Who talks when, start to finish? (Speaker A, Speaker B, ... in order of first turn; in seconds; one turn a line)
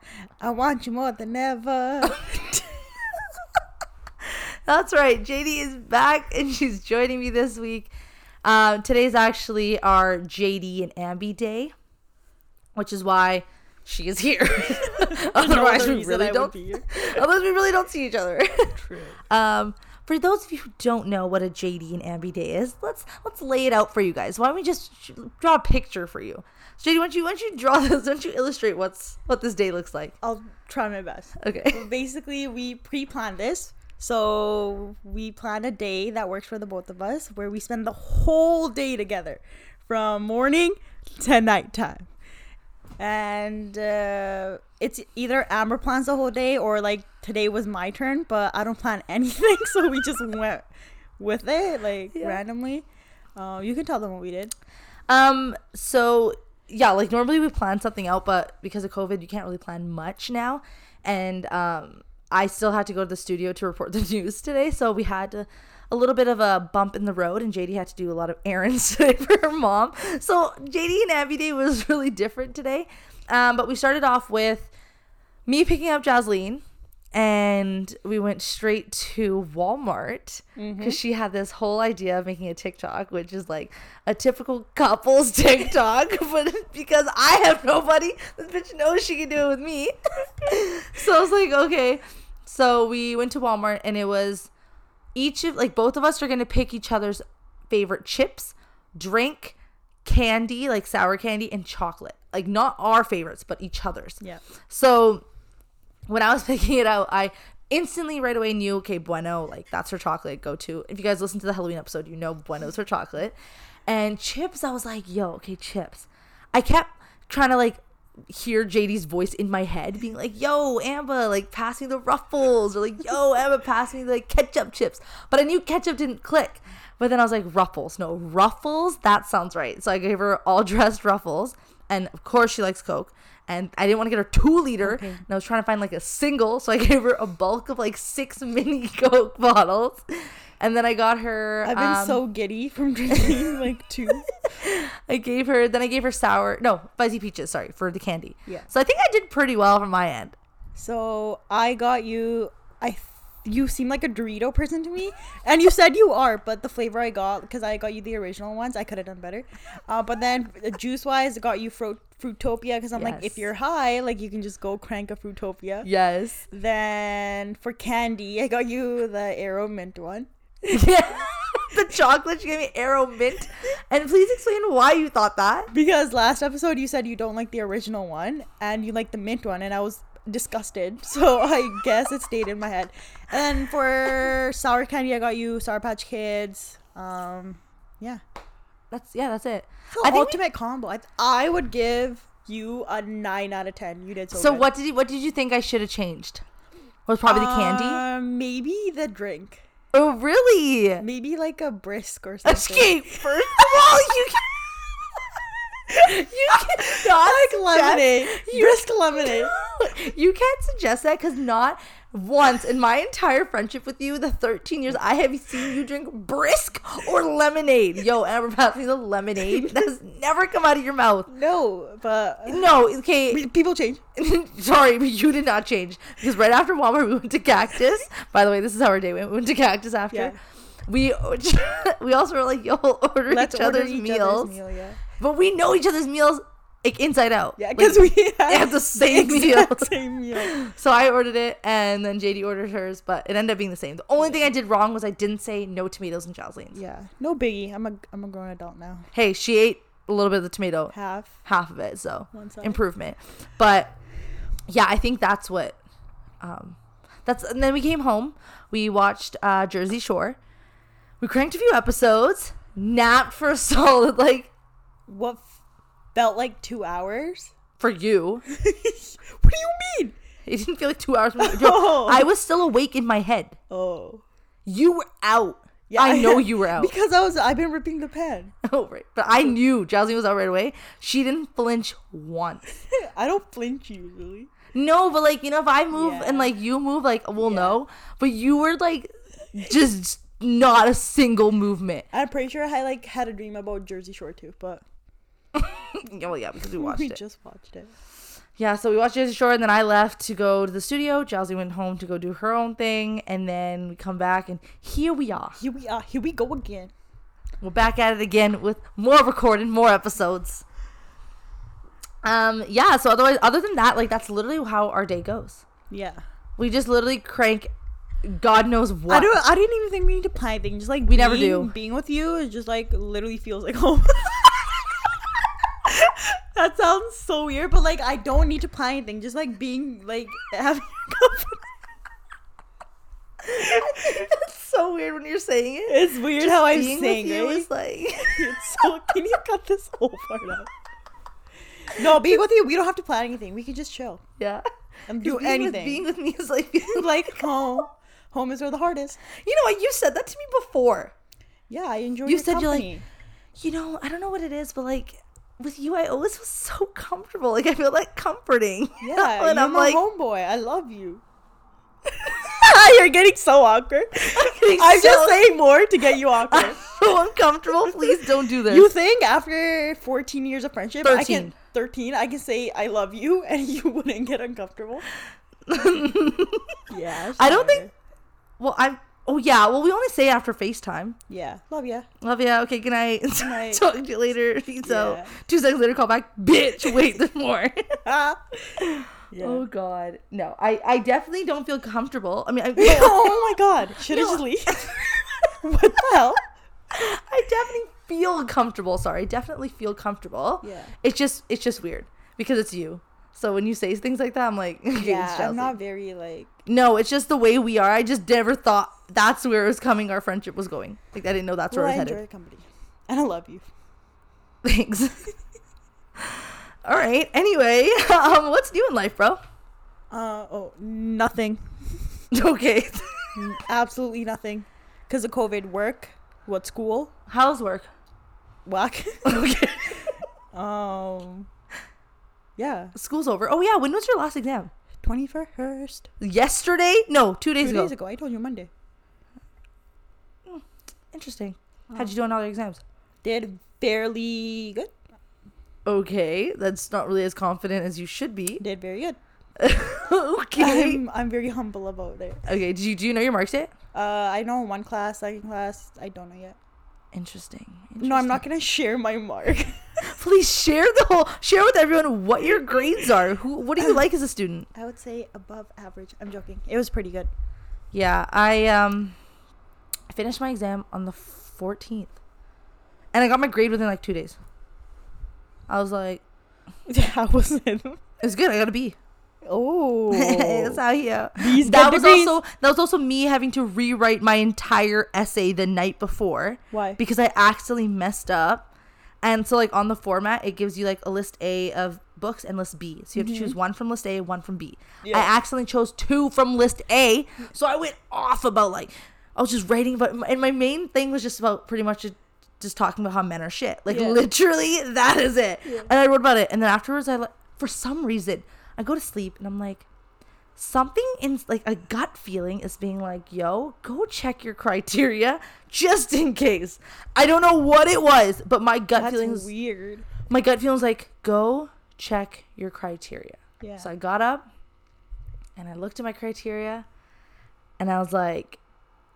Speaker A: 0.4-2.8
Speaker B: 4.2-7.9
Speaker B: 8.4-11.7
Speaker B: 12.8-18.8
Speaker A: 14.8-17.1
Speaker A: 18.8-19.2
Speaker B: 19.3-30.1
Speaker A: 30.2-42.1
Speaker B: 31.4-31.9
Speaker A: 43.0-50.6
Speaker A: 51.2-52.8
Speaker B: 52.1-52.4
Speaker A: 53.4-54.5
Speaker B: 55.1-74.7
Speaker B: 75.5-94.5
Speaker A: 80.6-81.0
Speaker B: 95.1-105.2
Speaker B: 106.1-113.3
Speaker B: 113.9-142.2
Speaker A: 134.8-135.2
Speaker A: 141.6-144.3
Speaker B: 143.1-143.5
Speaker B: 144.1-150.3
Speaker A: 150.8-165.9
Speaker B: 163.0-163.5
Speaker B: 165.8-166.4
Speaker A: 166.5-170.3
Speaker B: 170.6-175.7
Speaker A: 175.7-188.2
Speaker B: 188.9-190.4
Speaker A: 189.9-194.7
Speaker B: 194.3-196.4
Speaker B: 197.1-198.0
Speaker A: 197.2-199.6
Speaker B: 199.9-201.0
Speaker A: 201.0-203.6
Speaker B: 202.4-204.8
Speaker B: 205.9-221.3
Speaker A: 206.5-209.5
Speaker A: 219.4-219.8
Speaker A: 221.3-222.7
Speaker B: 222.5-223.5
Speaker A: 223.3-224.0
Speaker B: 224.2-230.3
Speaker A: 230.1-230.4
Speaker B: 230.9-234.5
Speaker A: 233.3-235.0
Speaker B: 235.2-246.8
Speaker A: 237.6-240.6
Speaker A: 246.7-249.1
Speaker B: 249.1-250.9
Speaker A: 250.9-251.3
Speaker B: 251.4-253.9
Speaker A: 252.3-252.8
Speaker B: 254.7-255.8
Speaker B: 256.4-260.4
Speaker B: 261.2-264.5
Speaker A: 265.1-265.5
Speaker A: 266.1-267.5
Speaker B: 267.8-268.4
Speaker A: 268.5-270.1
Speaker B: 270.4-273.6
Speaker A: 271.4-272.3
Speaker A: 273.7-274.2
Speaker B: 274.6-276.9
Speaker A: 275.9-278.5
Speaker B: 278.6-282.6
Speaker A: 282.9-284.5
Speaker B: 284.7-292.1
Speaker A: 285.9-286.5
Speaker A: 287.4-287.8
Speaker A: 292.1-294.8
Speaker B: 295.5-297.2
Speaker A: 296.7-297.9
Speaker B: 298.6-305.6
Speaker A: 305.6-306.9
Speaker B: 307.6-310.6
Speaker B: 312.2-315.6
Speaker A: 315.9-316.2
Speaker B: 316.6-317.7
Speaker B: 318.2-319.4
Speaker A: 319.1-324.9
Speaker B: 321.1-321.7
Speaker A: 325.8-331.6
Speaker B: 333.4-338.9
Speaker A: 333.5-333.9
Speaker A: 335.9-337.7
Speaker A: 338.2-340.7
Speaker A: 341.9-344.2
Speaker B: 344.4-344.6
Speaker A: 345.1-346.0
Speaker B: 345.2-347.5
Speaker A: 346.9-349.2
Speaker B: 349.3-351.1
Speaker A: 351.7-353.0
Speaker B: 352.2-352.9
Speaker B: 353.6-360.0
Speaker A: 359.0-361.2
Speaker A: 362.2-366.8
Speaker B: 364.2-365.4
Speaker B: 366.5-368.9
Speaker A: 367.9-375.1
Speaker B: 371.0-371.5
Speaker B: 375.7-376.8
Speaker A: 376.9-377.9
Speaker B: 377.4-377.8
Speaker B: 378.6-381.2
Speaker A: 381.3-382.1
Speaker B: 382.2-388.0
Speaker A: 383.4-383.8
Speaker A: 384.8-385.3
Speaker A: 388.0-389.6
Speaker B: 388.8-393.5
Speaker A: 392.8-396.4
Speaker B: 394.1-395.2
Speaker B: 396.9-405.8
Speaker A: 400.6-400.9
Speaker A: 404.9-406.5
Speaker B: 406.6-412.2
Speaker A: 411.7-413.6
Speaker B: 414.6-415.3
Speaker B: 416.2-419.4
Speaker A: 420.1-421.6
Speaker B: 422.3-423.3
Speaker A: 423.3-427.1
Speaker B: 427.3-427.9
Speaker A: 428.6-429.5
Speaker B: 429.2-430.1
Speaker A: 430.5-431.5
Speaker A: 432.6-432.9
Speaker B: 432.9-434.7
Speaker A: 435.0-436.1
Speaker B: 436.2-437.9
Speaker A: 437.6-438.7
Speaker B: 440.4-442.8
Speaker A: 443.2-444.9
Speaker B: 445.8-448.6
Speaker A: 448.6-449.2
Speaker B: 449.6-451.0
Speaker A: 450.6-452.4
Speaker B: 452.4-453.7
Speaker A: 453.9-456.6
Speaker B: 457.1-458.4
Speaker A: 458.0-459.9
Speaker B: 460.0-464.7
Speaker A: 464.8-467.3
Speaker B: 467.9-469.2
Speaker B: 470.1-472.1
Speaker B: 473.1-474.4
Speaker B: 475.7-476.2
Speaker A: 476.9-478.0
Speaker B: 478.2-479.0
Speaker A: 479.4-480.8
Speaker B: 480.1-488.7
Speaker A: 481.3-482.4
Speaker A: 486.7-487.0
Speaker B: 489.2-509.9
Speaker A: 493.1-493.5
Speaker A: 495.0-495.3
Speaker A: 503.9-504.2
Speaker B: 510.6-519.5
Speaker A: 518.9-520.1
Speaker B: 520.3-524.5
Speaker A: 523.6-523.9
Speaker B: 525.5-526.9
Speaker B: 527.8-528.6